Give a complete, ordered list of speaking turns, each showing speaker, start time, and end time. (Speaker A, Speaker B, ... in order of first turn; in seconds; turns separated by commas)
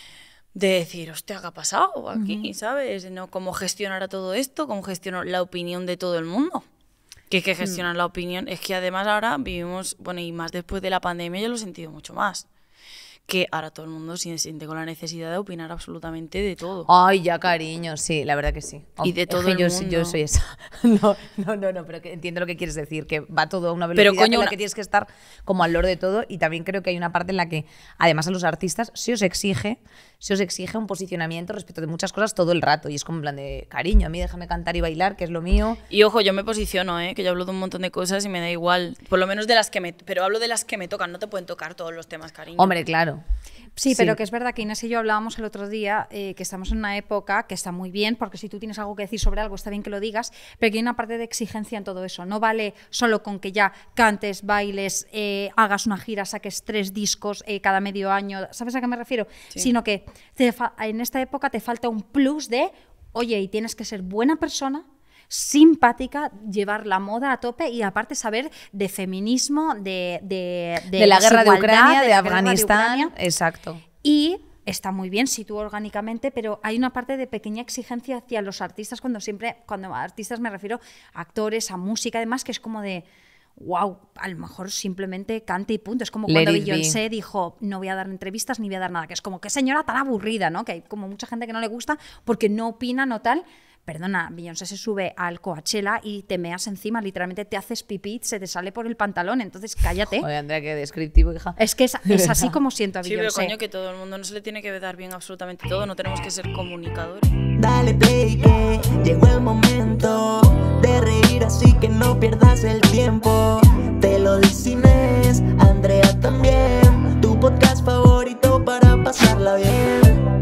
Speaker A: 0.5-6.7, Speaker B: 2.1-2.5, Speaker A: 7.3-12.5, Speaker B: 7.6-7.9, Speaker A: 13.3-16.9, Speaker C: 16.9-35.8, Speaker A: 19.0-20.2, Speaker A: 23.9-24.5, Speaker A: 35.9-42.7, Speaker C: 42.6-43.2, Speaker B: 43.8-73.1, Speaker C: 43.9-44.2, Speaker C: 71.0-73.8, Speaker B: 74.0-83.1, Speaker B: 83.6-100.3, Speaker C: 86.3-87.0, Speaker C: 100.1-102.5, Speaker B: 101.6-103.6, Speaker A: 103.0-107.4, Speaker D: 107.6-120.2